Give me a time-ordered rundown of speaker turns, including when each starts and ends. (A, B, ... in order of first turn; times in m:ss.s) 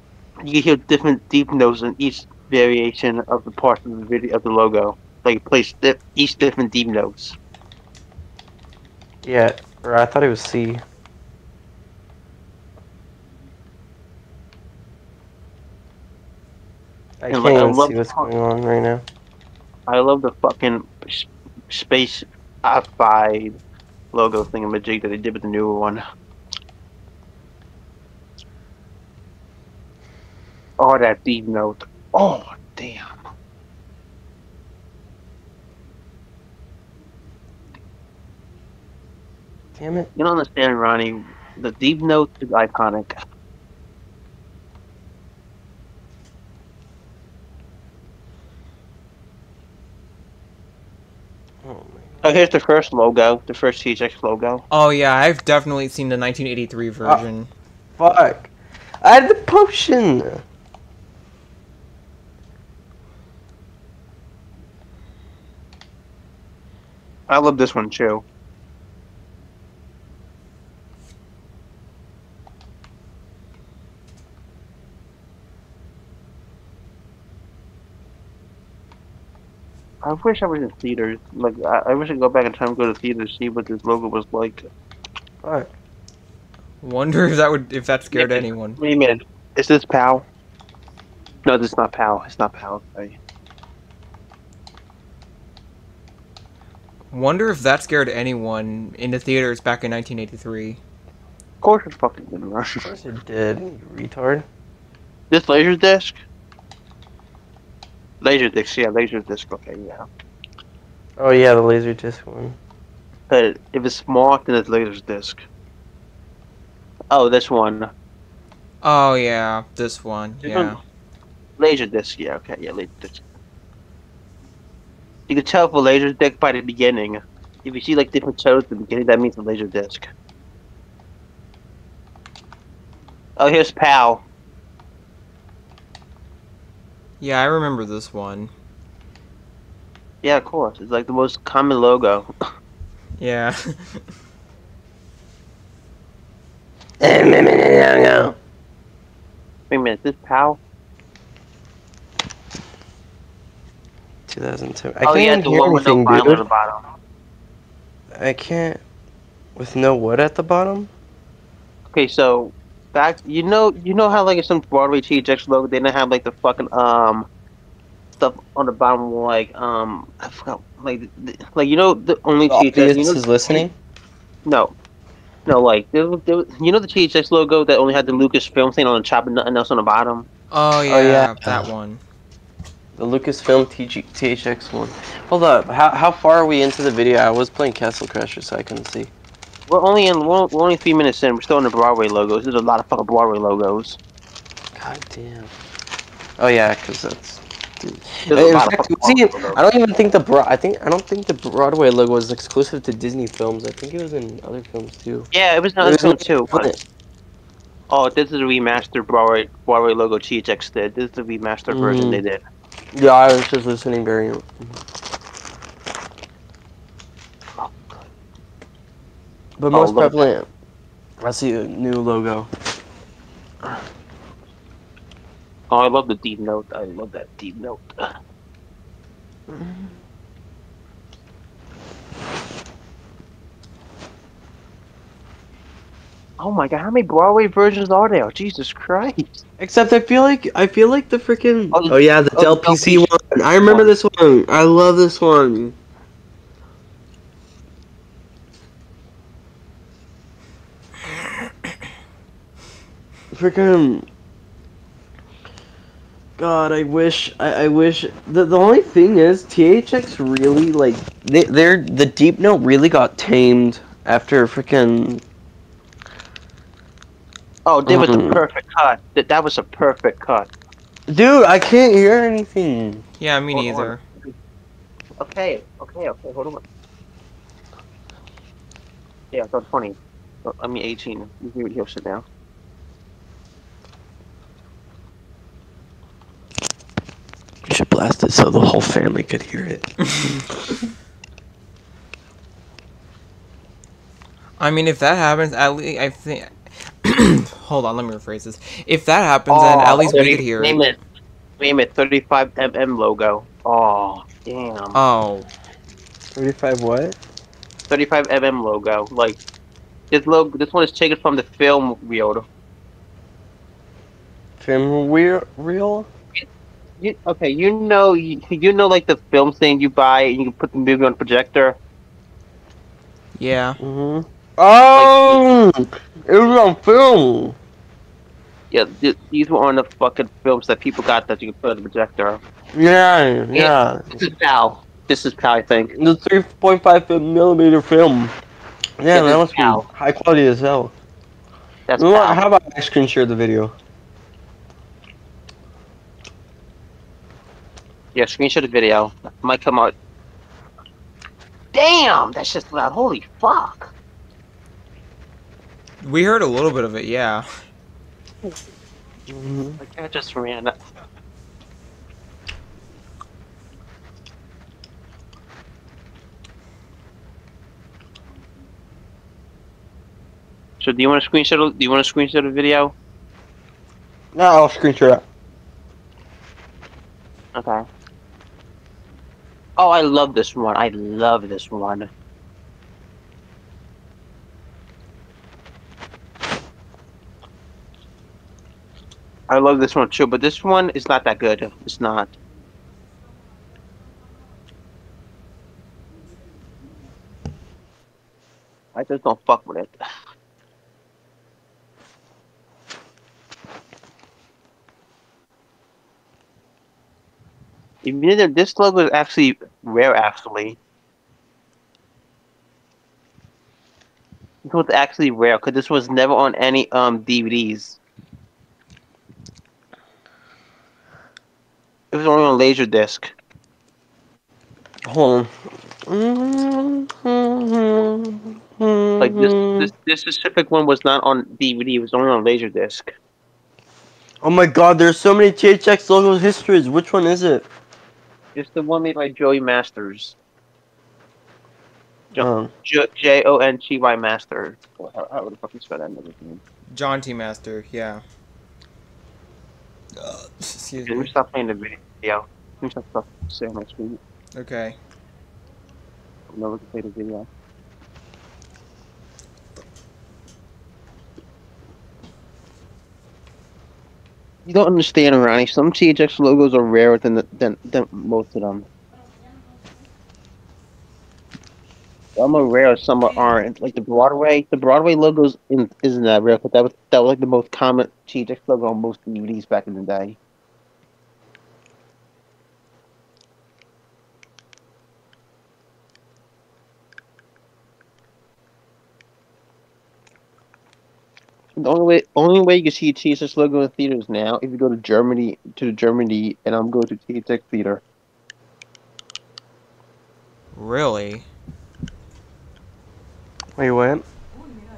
0:00.4-0:07.4 A
0:09.2-0:10.8 B
0:17.2-0:19.0 B
0:17.3-0:18.3 A
0:19.9-0:23.6 A
0:24.1-0:26.0 A
0:30.8-0:33.1 A
0:39.8-0:40.1 B
0:40.2-0:43.1 A
0:51.6-0:52.2 B
0:52.2-0:54.6 A
0:54.7-0:57.5 C
0:58.0-0:58.5 B
0:59.0-1:00.4 B
1:07.3-1:08.2 A
1:20.0-1:24.7 A
1:25.4-1:25.7 B
1:26.8-1:28.8 C
1:28.1-1:30.2 A
1:31.4-1:33.2 A
1:37.1-1:40.8 C
1:41.6-1:42.9 A
1:42.8-1:44.4 B
1:45.3-1:46.2 A
1:48.2-1:50.0 A
1:51.2-1:52.6 B
1:53.3-1:55.4 A
1:57.1-1:57.9 A
1:58.8-2:00.8 C
2:00.4-2:00.8 A
2:01.6-2:03.2 A
2:05.3-2:10.1 A
2:13.4-2:14.2 A
2:17.2-2:18.5 C
2:20.2-2:22.3 A
2:23.2-2:24.0 C
2:27.0-2:28.4 B
2:29.7-2:30.6 A
2:34.3-2:36.4 B
2:35.0-2:36.9 A
2:38.1-2:38.8 B
2:39.6-2:40.9 B
2:41.9-2:47.3 A
2:48.2-2:53.6 A
2:52.5-2:53.7 B
2:54.4-2:54.7 A
2:55.5-3:00.3 A
3:00.5-3:02.0 C
3:00.9-3:01.7 B
3:03.0-3:09.1 B
3:09.7-3:14.0 A
3:14.7-3:15.5 B
3:16.4-3:25.3 B
3:18.3-3:19.6 A
3:25.3-3:26.7 A
3:25.8-3:26.8 B
3:27.9-3:32.4 A
3:31.7-3:32.2 B
3:32.9-3:34.8 B
3:39.6-3:40.5 B
3:39.7-3:40.2 A
3:41.2-3:42.5 B
3:45.7-3:47.9 A
3:49.5-3:49.9 B
3:56.4-3:59.4 A
3:59.6-4:05.8 B
4:01.7-4:03.9 A
4:13.3-4:14.0 B
4:16.4-4:25.2 B
4:27.6-4:30.5 A
4:27.8-4:28.4 B
4:31.1-4:33.0 B
4:33.2-4:34.0 C
4:33.5-4:34.3 A
4:35.2-4:36.6 A
4:39.3-4:42.2 A
4:47.6-4:50.4 B
4:54.6-5:00.8 C
4:59.5-5:01.0 A
5:01.6-5:05.0 A
5:04.9-5:05.5 C
5:06.3-5:07.2 B
5:07.9-5:09.4 A
5:10.1-5:12.4 A
5:14.6-5:16.1 B
5:17.0-5:21.8 A
5:23.4-5:23.8 C
5:23.8-5:27.6 B
5:24.9-5:25.4 A
5:28.7-5:32.4 A
5:32.7-5:34.1 B
5:33.5-5:35.9 A
5:35.9-5:38.3 B
5:39.0-5:40.9 B
5:39.1-5:39.9 A
5:41.9-5:42.4 A
5:42.0-5:43.7 B
5:48.1-5:49.9 A
5:51.7-5:53.9 A
5:56.0-5:57.5 C
5:59.3-5:59.8 B
5:59.8-6:00.8 A
6:10.8-6:12.9 A
6:14.3-6:15.2 B
6:17.5-6:17.8 A
6:19.8-6:22.1 A
6:29.5-6:32.3 A
6:38.9-6:40.0 A
6:48.0-6:50.8 A
6:54.6-6:58.0 A
7:02.1-7:03.3 A
7:05.0-7:09.9 B
7:09.2-7:13.1 A
7:14.4-7:17.6 B
7:18.5-7:20.4 A
7:22.3-7:26.6 A
7:22.4-7:22.7 B
7:26.9-7:28.2 C
7:30.2-7:31.3 C
7:31.0-7:34.2 A
7:34.5-7:35.0 C
7:36.5-7:37.5 A
7:44.6-7:48.8 A
7:52.4-8:00.4 A
8:11.8-8:18.0 A
8:20.7-8:21.5 C
8:23.8-8:24.2 B